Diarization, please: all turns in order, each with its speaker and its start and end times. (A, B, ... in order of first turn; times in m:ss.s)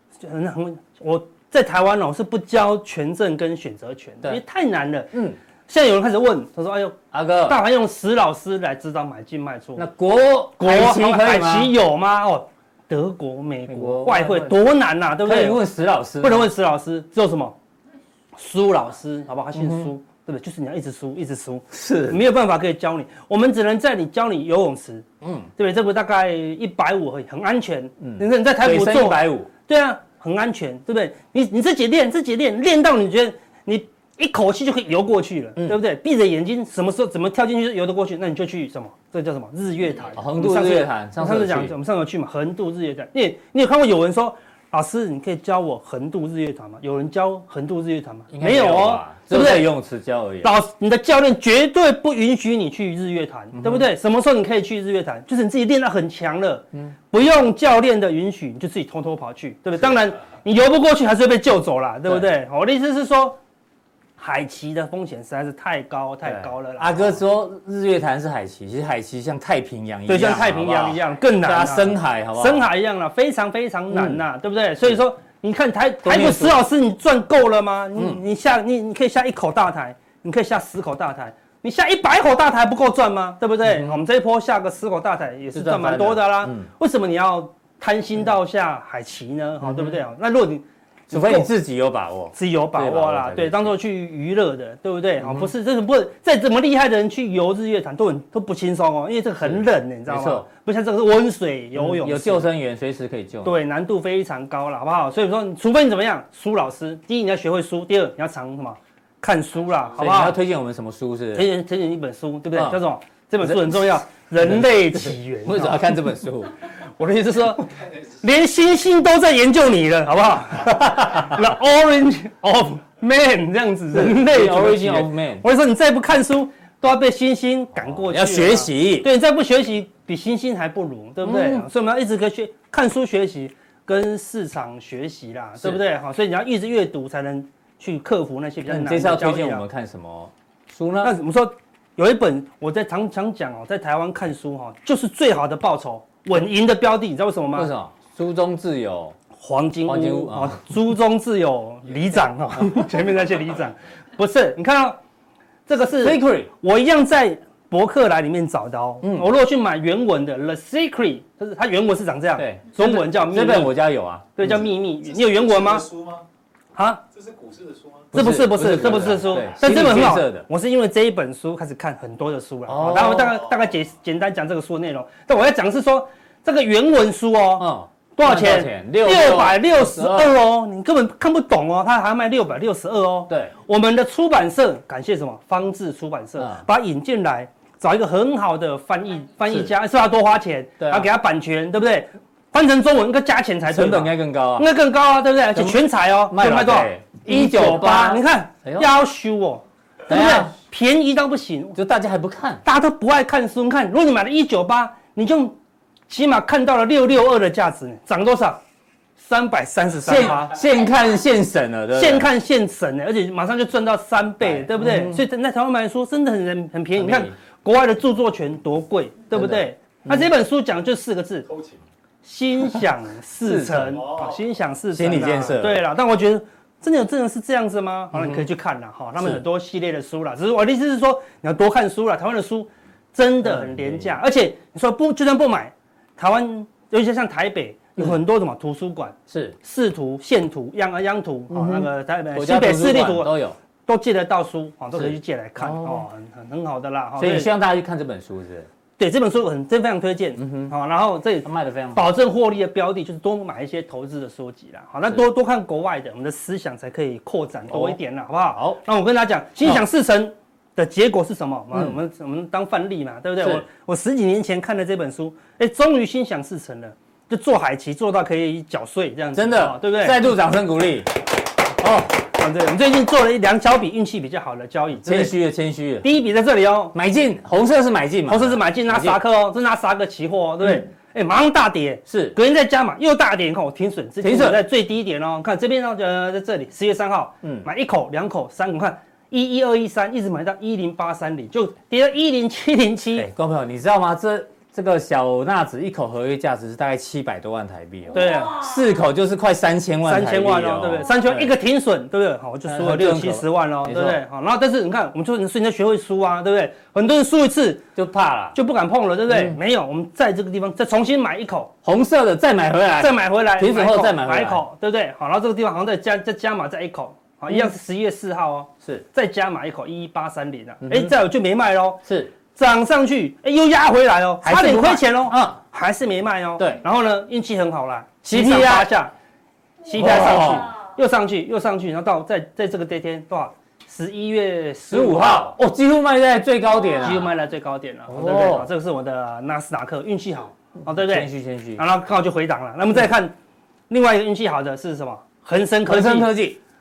0:00.2-0:05.1 A
0:05.1-0:05.4 B
0:05.7-0:09.8 A
0:07.1-0:07.6 B
0:09.8-0:11.7 B
0:10.6-0:15.6 A
0:13.7-0:14.6 B
0:15.2-0:16.5 B
0:16.2-0:17.6 A
0:18.3-0:49.7 A
0:19.5-0:19.9 B
0:21.7-0:22.2 B
0:25.2-0:25.5 B
0:28.0-0:29.5 B
0:40.1-0:41.7 B
0:48.3-0:50.5 B
0:50.4-1:03.4 A
0:53.5-0:53.8 B
1:04.2-1:07.2 A
1:06.2-1:12.7 B
1:10.1-1:31.5 A
1:13.9-1:14.2 B
1:16.0-1:16.6 B
1:23.6-1:24.0 B
1:25.5-1:26.7 B
1:29.6-1:30.0 B
1:31.1-1:33.7 B
1:32.3-1:42.5 A
1:35.2-1:35.5 B
1:39.4-1:40.4 B
1:41.7-1:43.6 B
1:43.4-1:50.4 A
1:50.0-1:51.5 B
1:51.3-1:55.8 A
1:52.5-1:52.8 B
1:53.4-1:53.8 B
1:54.4-1:56.5 B
1:57.0-2:19.6 A
2:03.9-2:05.4 B
2:07.8-2:09.1 B
2:11.2-2:11.6 B
2:18.7-2:21.1 B
2:21.0-2:27.7 A
2:27.5-2:29.2 B
2:29.4-2:35.0 A
2:29.8-2:30.6 B
2:35.7-2:43.8 A
2:36.0-2:36.5 B
2:39.0-2:39.3 B
2:42.4-2:44.6 B
2:44.4-2:45.9 A
2:44.5-2:46.2 C
2:46.7-2:47.0 A
2:47.1-2:49.5 C
2:48.1-3:21.8 A
2:48.1-2:50.5 B
2:52.7-2:53.4 B
2:57.6-3:00.3 B
3:06.4-3:06.6 B
3:10.8-3:11.1 B
3:13.7-3:14.7 B
3:15.5-3:18.9 B
3:20.1-3:20.5 B
3:21.8-3:22.6 B
3:22.6-3:25.6 A
3:26.1-3:28.6 A
3:29.2-3:30.6 A
3:30.0-3:32.3 B
3:31.9-3:41.5 A
3:34.4-3:35.2 B
3:37.0-3:37.3 B
3:39.3-3:40.3 B
3:41.5-3:41.8 C
3:42.2-4:03.3 A
3:43.4-3:44.0 B
3:43.9-3:44.4 C
3:44.9-3:45.8 B
3:48.1-3:48.5 B
3:53.4-3:54.1 B
3:59.3-3:59.6 B
4:01.5-4:03.6 B
4:03.8-4:07.5 A
4:04.9-4:06.0 B
4:07.2-4:08.7 B
4:09.0-4:30.2 A
4:10.4-4:10.7 B
4:11.4-4:12.1 B
4:17.7-4:18.0 B
4:18.5-4:18.8 B
4:29.3-4:31.1 B
4:31.8-4:35.3 A
4:35.0-4:36.1 B
4:36.0-4:36.9 A
4:36.9-4:39.2 B
4:38.3-4:53.3 A
4:42.1-4:42.4 B
4:44.2-4:44.6 B
4:53.2-5:01.5 B
4:58.1-4:58.6 A
5:00.0-5:07.8 A
5:02.6-5:04.2 B
5:08.0-5:08.6 B
5:08.5-5:11.7 A
5:09.3-5:09.6 B
5:11.8-5:14.6 B
5:13.0-5:22.0 A
5:20.8-5:21.1 B
5:22.0-5:22.3 B
5:22.5-5:29.1 A
5:24.4-5:25.6 B
5:26.6-5:26.8 B
5:28.2-5:28.9 B
5:29.8-5:35.5 A
5:29.9-5:30.7 B
5:34.9-5:37.3 B
5:37.0-5:43.3 A
5:38.1-5:38.7 B
5:41.0-5:41.8 B
5:43.9-5:46.3 A
5:45.8-5:46.6 B